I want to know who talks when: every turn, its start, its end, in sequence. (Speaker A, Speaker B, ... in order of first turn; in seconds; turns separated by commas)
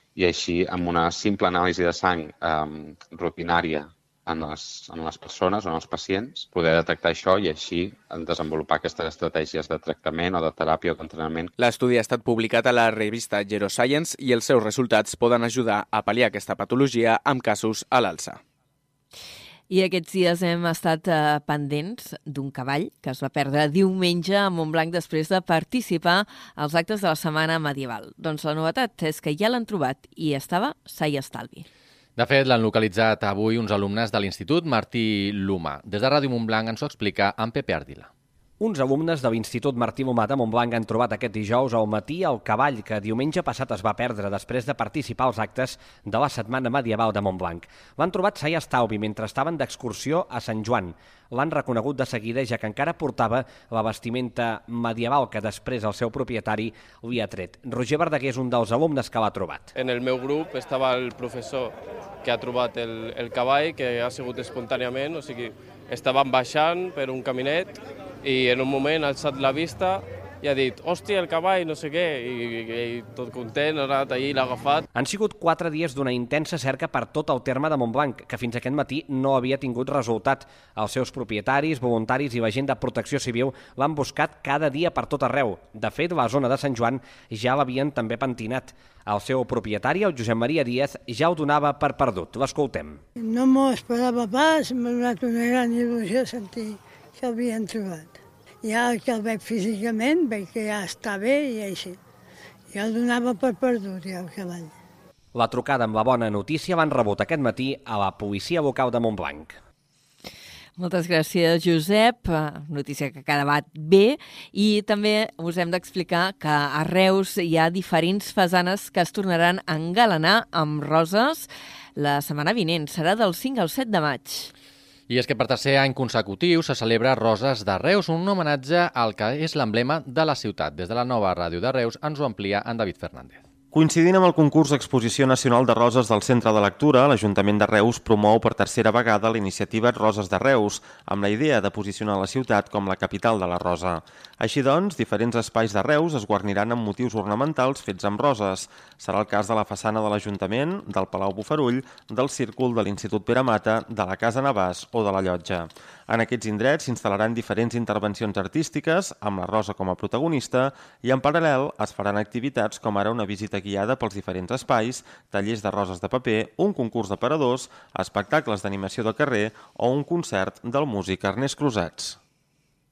Speaker A: 0.2-11.5, Speaker B: 11.6-18.4, Speaker C: 19.7-31.7, Speaker D: 32.2-38.1, Speaker E: 38.6-59.7, Speaker F: 59.8-74.8, Speaker E: 74.9-93.0, Speaker G: 93.2-102.0, Speaker G: 102.7-104.7, Speaker E: 105.3-109.6, Speaker C: 110.8-124.5, Speaker D: 125.1-133.4, Speaker H: 133.7-172.2